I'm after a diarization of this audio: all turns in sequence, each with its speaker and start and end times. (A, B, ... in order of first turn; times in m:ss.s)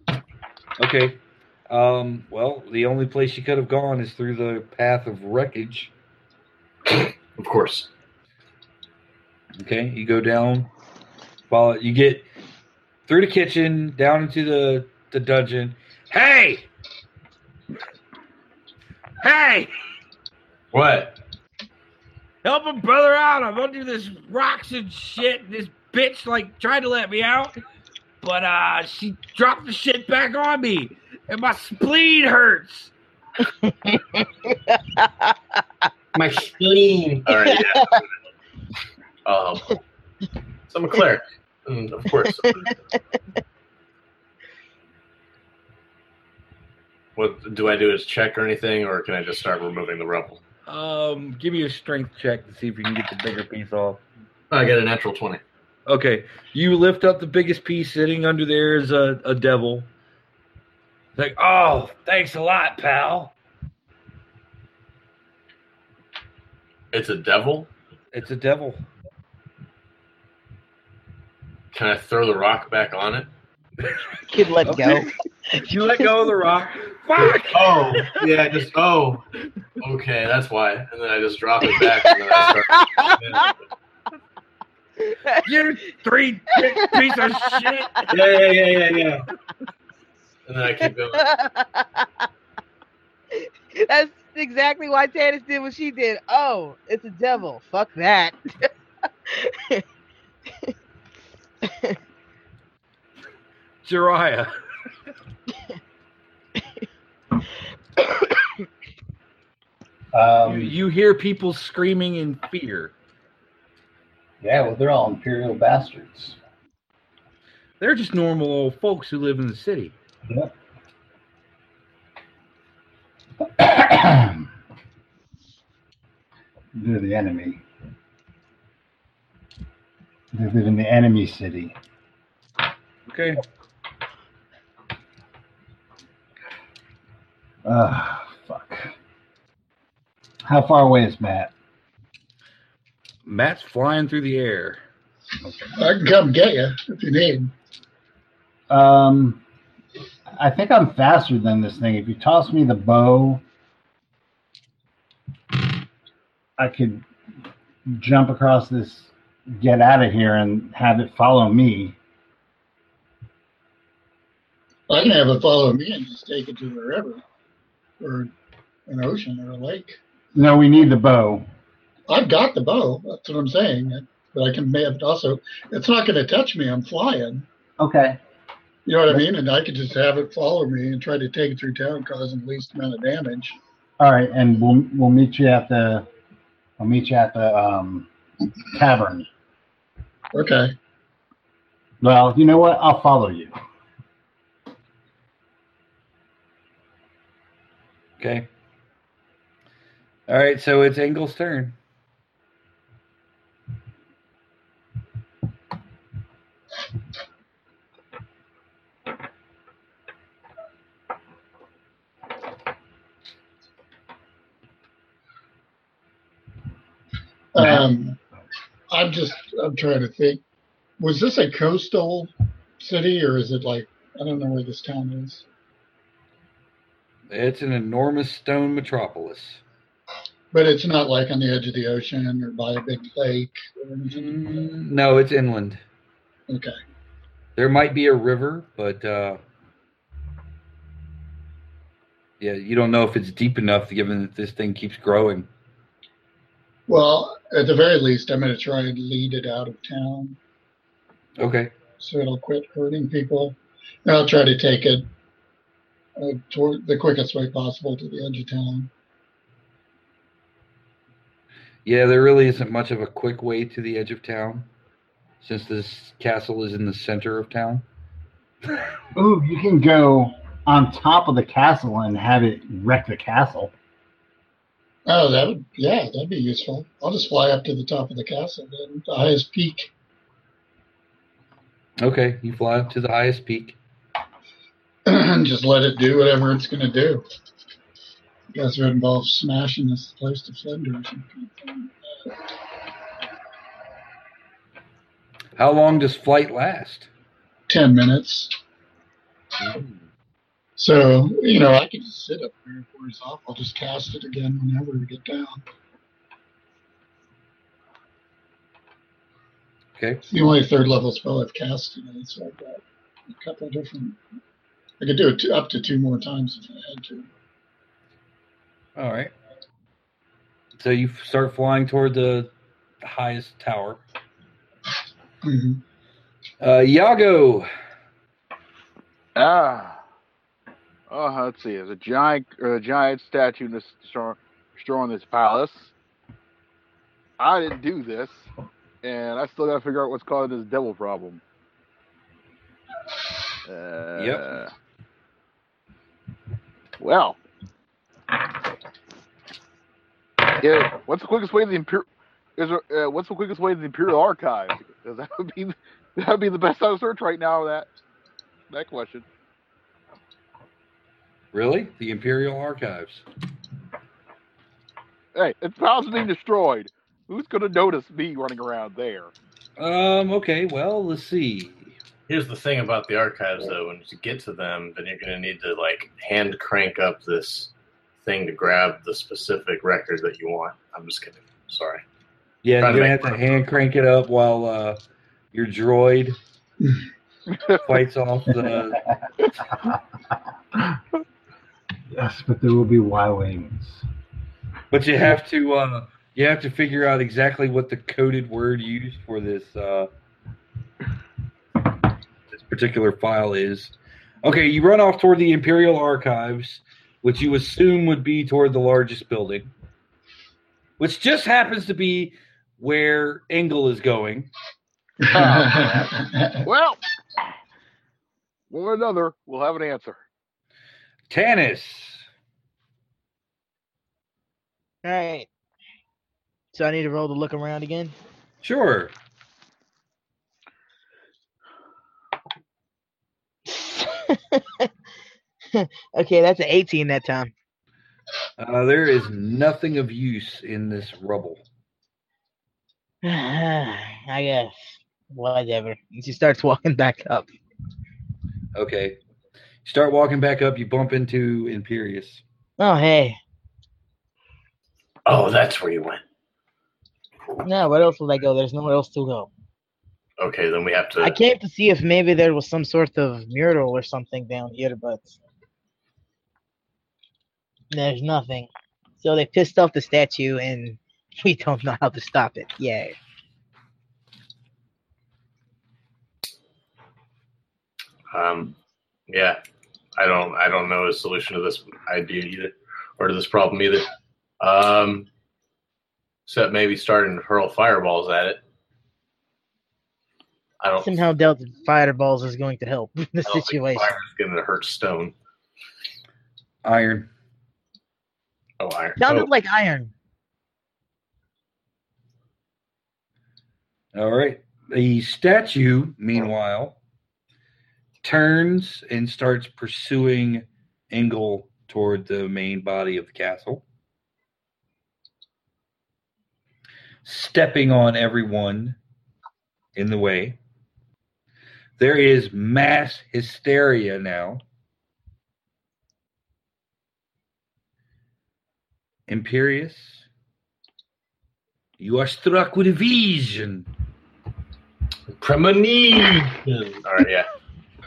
0:00.8-0:05.9 A
0:06.9-0:07.9 B
0:09.6-0:10.7 A
0:11.5-0:12.2 A
0:13.1-0:16.7 A
0:19.2-0:19.7 A
0:20.7-0:21.2 B
0:22.4-0:27.5 A
0:28.2-0:32.9 A
0:33.4-0:35.6 C
0:36.1-0:38.0 B
0:37.5-0:37.9 C
0:39.2-0:39.8 B
0:40.7-0:42.8 B
0:47.2-0:50.4 B
0:50.7-0:54.0 A
0:54.5-0:55.4 B
0:55.9-0:59.9 A
1:01.2-1:03.3 A
1:06.9-1:07.7 B
1:08.1-1:08.8 A
1:11.7-1:13.3 B
1:14.3-1:15.1 C
1:14.6-1:18.0 A
1:17.2-1:19.2 B
1:19.8-1:23.6 B
1:21.8-1:23.5 C
1:25.0-1:25.4 C
1:25.4-1:28.2 A
1:26.6-1:27.6 C
1:28.1-1:29.2 B
1:30.5-1:31.3 B
1:31.1-1:32.2 C
1:33.4-1:38.7 C
1:39.3-1:39.8 C
1:41.6-1:42.0 C
1:43.8-1:44.5 A
1:48.1-1:48.4 C
1:50.1-1:50.7 D
1:50.4-1:52.9 A
1:54.4-1:56.4 D
1:57.8-1:59.9 A
2:00.3-2:00.5 D
2:03.4-2:04.5 D
2:06.7-2:07.6 D
2:10.3-2:11.8 D
2:13.0-2:13.4 A
2:17.6-2:18.9 D
2:20.4-2:21.5 D
2:23.2-2:24.8 A
2:25.4-2:25.8 D
2:25.7-2:27.5 E
2:28.7-2:29.4 D
2:30.4-2:33.4 D
2:36.6-2:37.0 D
2:37.9-2:42.0 D
2:44.9-2:47.2 E
2:48.0-2:48.3 E
2:48.9-2:50.0 E
2:50.3-2:51.4 D
2:52.1-2:57.4 E
2:57.8-2:58.2 D
2:58.8-3:03.6 E
3:04.0-3:06.1 D
3:06.8-3:08.1 D
3:08.7-3:09.3 D
3:10.3-3:10.7 E
3:12.0-3:13.5 D
3:18.2-3:18.5 A
3:20.3-3:21.8 A
3:37.5-3:38.2 E
3:38.9-3:40.4 E
3:41.0-3:45.4 E
3:47.3-3:49.6 A
3:50.5-3:54.4 E
3:54.1-3:55.8 A
3:56.5-3:56.8 E
3:57.6-3:59.4 A
4:02.4-4:05.5 A
4:06.9-4:10.4 E
4:11.4-4:11.7 A
4:12.0-4:15.1 E
4:16.2-4:18.9 E
4:21.8-4:24.7 A
4:25.4-4:27.8 A
4:29.1-4:33.7 D
4:35.1-4:39.9 E
4:42.0-4:43.8 A
4:45.0-4:47.2 E
4:48.5-4:51.9 E
4:55.6-4:57.1 A
4:57.7-4:58.5 E
5:00.8-5:05.6 E
5:10.0-5:10.2 A
5:10.3-5:14.2 E
5:15.0-5:17.3 E
5:19.0-5:19.3 A
5:20.8-5:22.5 A
5:23.0-5:24.0 A
5:25.4-5:25.8 E
5:26.6-5:27.7 A
5:29.4-5:30.0 F
5:31.1-5:35.9 F
5:37.4-5:38.5 F
5:39.0-5:41.4 F
5:43.6-5:44.7 F
5:44.2-5:44.5 A
5:47.0-5:47.4 F
5:50.6-5:57.9 F
5:58.7-5:59.2 F
6:01.5-6:03.2 A
6:05.3-6:09.3 F
6:09.8-6:11.9 A
6:12.3-6:22.0 B
6:22.6-6:25.0 A
6:22.8-6:23.2 B
6:25.5-6:26.4 A
6:27.5-6:27.8 F
6:27.8-6:29.0 A
6:32.1-6:34.0 D
6:34.9-6:40.1 A
6:42.5-6:43.9 A
6:44.4-6:49.7 A
6:51.0-6:54.5 A
6:55.2-6:56.6 E
6:55.3-6:57.0 F
6:58.7-7:00.2 F
7:01.3-7:02.2 A
7:05.0-7:05.5 C
7:06.7-7:08.1 C
7:08.6-7:09.1 A
7:13.7-7:14.9 C
7:15.7-7:17.5 C
7:18.6-7:21.6 A
7:23.2-7:27.5 C
7:28.7-7:29.2 A
7:29.8-7:32.4 A
7:32.8-7:33.4 C
7:35.2-7:36.2 B
7:37.6-7:39.5 C
7:40.4-7:41.3 B
7:41.2-7:45.4 C
7:47.9-7:48.7 C
7:49.2-7:53.2 C
7:58.3-7:58.7 B
7:59.3-7:59.6 B
8:00.2-8:04.1 B
8:04.6-8:05.3 B
8:06.4-8:08.6 B
8:10.8-8:11.2 B
8:11.0-8:14.1 C
8:13.4-8:15.3 B
8:16.8-8:17.3 A
8:18.8-8:19.5 B
8:19.2-8:20.1 C
8:24.1-8:27.0 A
8:28.2-8:33.8 A
8:37.2-8:39.0 A
8:40.0-8:40.6 A
8:42.0-8:44.6 A
8:49.3-8:50.2 A
8:52.0-8:53.8 A
8:55.4-8:57.5 B